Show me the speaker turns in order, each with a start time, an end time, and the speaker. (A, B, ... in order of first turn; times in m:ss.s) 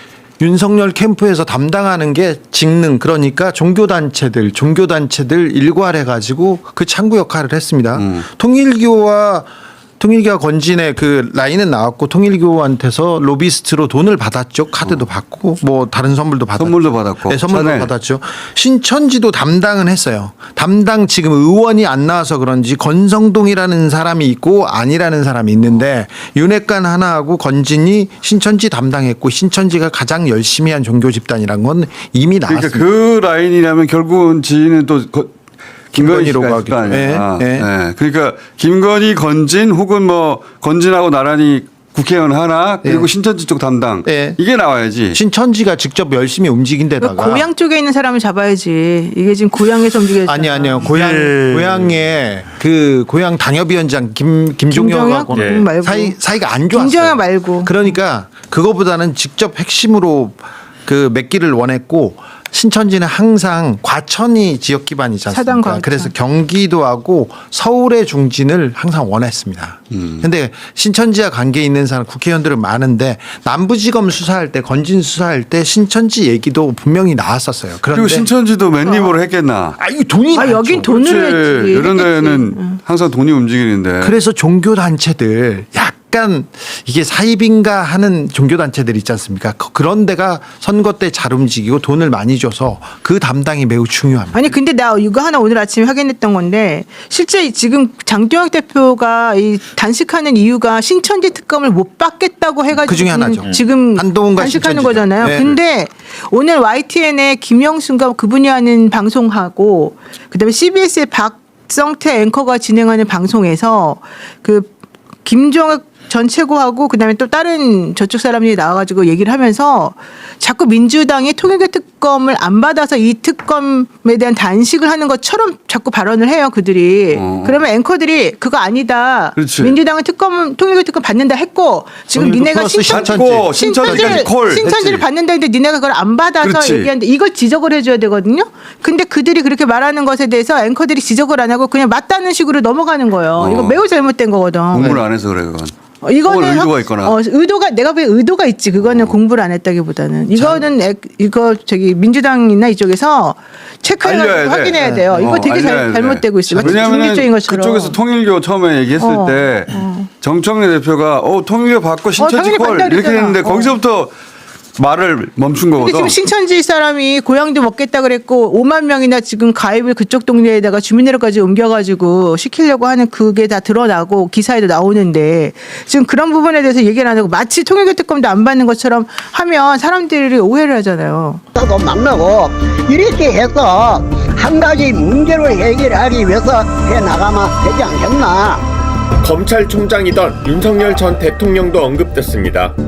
0:00.4-0:32.9 A
0:08.0-0:08.2 B
0:16.6-0:17.9 B
0:32.5-0:35.3 B
0:35.9-0:45.2 B
0:35.9-0:37.7 A
0:42.8-0:43.1 A
0:44.0-0:44.4 A
0:45.1-0:47.5 A
0:47.0-0:51.1 C
0:50.3-1:18.3 A
0:54.7-0:56.2 C
0:55.3-0:55.6 D
0:56.7-0:57.7 C
1:05.3-1:06.1 C
1:17.9-1:19.8 B
1:18.8-1:19.1 C
1:19.8-1:21.0 A
1:20.3-1:22.8 C
1:20.6-1:24.2 B
1:24.0-1:34.5 A
1:34.4-1:54.7 C
1:42.7-1:45.6 A
1:55.2-2:25.0 C
2:07.1-2:07.7 B
2:09.4-2:09.8 B
2:12.2-2:14.2 A
2:12.9-2:15.1 B
2:16.4-2:16.9 B
2:23.4-2:23.8 B
2:24.7-2:27.2 B
2:26.0-2:38.0 C
2:28.8-2:29.2 B
2:30.4-2:30.6 B
2:34.0-2:44.1 B
2:39.0-2:40.1 C
2:42.2-2:43.8 C
2:44.8-2:46.2 B
2:45.8-3:01.4 C
3:01.6-3:08.7 E
3:09.4-3:12.7 D